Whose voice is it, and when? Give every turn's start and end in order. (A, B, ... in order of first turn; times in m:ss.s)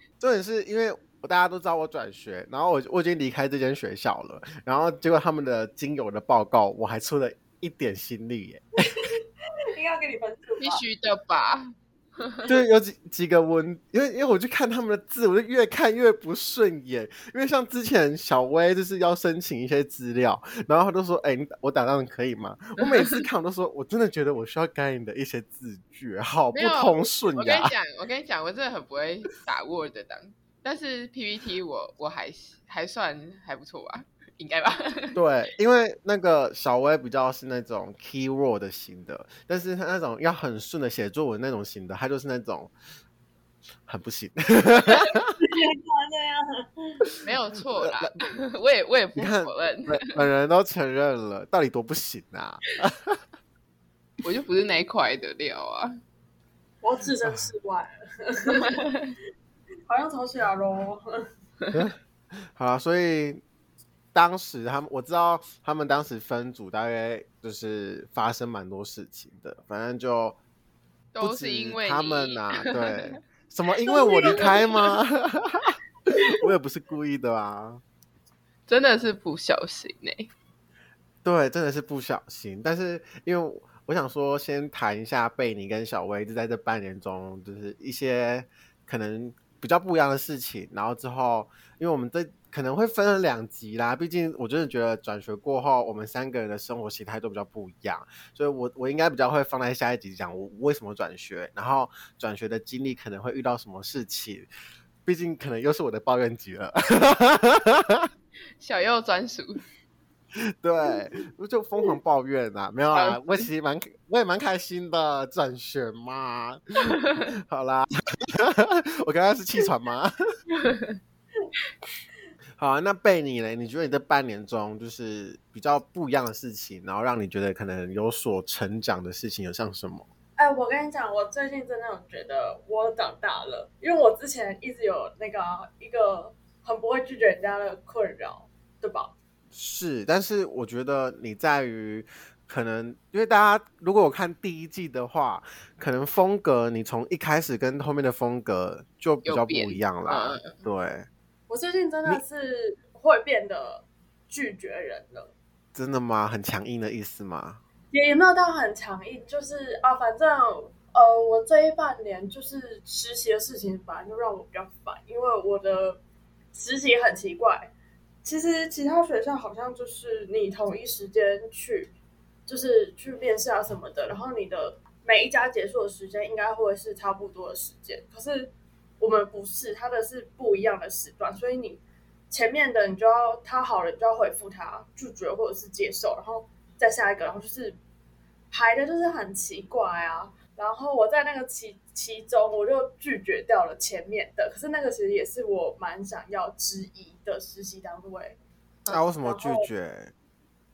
0:00.2-0:08.6 A
0:09.7-0:10.8 B
0:10.6-0:12.5 C
0:12.5-0:27.7 A
0:26.5-0:35.2 C
0:35.2-0:42.7 A
0:43.9-0:45.4 A
0:45.4-0:47.0 B
0:47.2-0:50.1 C
0:47.8-0:48.1 A
0:49.2-0:53.2 A
0:54.2-0:55.9 C
0:56.8-0:58.9 B
0:58.5-0:59.1 C
0:59.9-1:01.1 B
1:01.7-1:03.4 A
1:04.1-1:10.4 A
1:11.1-1:13.0 C
1:11.2-1:17.8 A
1:14.1-1:14.6 B
1:14.2-1:14.7 C
1:18.7-1:20.3 C
1:21.2-1:44.5 A
1:45.0-1:48.1 A
1:48.6-1:49.6 C
1:50.6-2:00.1 A
1:52.9-1:53.5 C
1:57.0-1:57.3 C
2:00.5-2:01.0 C
2:02.6-2:10.1 A
2:10.4-2:19.1 B
2:19.5-2:31.1 A
2:29.2-2:30.6 C
2:31.5-2:35.3 B
2:35.8-2:37.6 A
2:37.9-2:46.0 B
2:46.5-2:47.7 B
2:48.2-2:51.9 B
2:52.5-3:07.8 B
3:08.5-3:18.4 B
3:18.9-3:20.1 A
3:19.2-3:19.7 B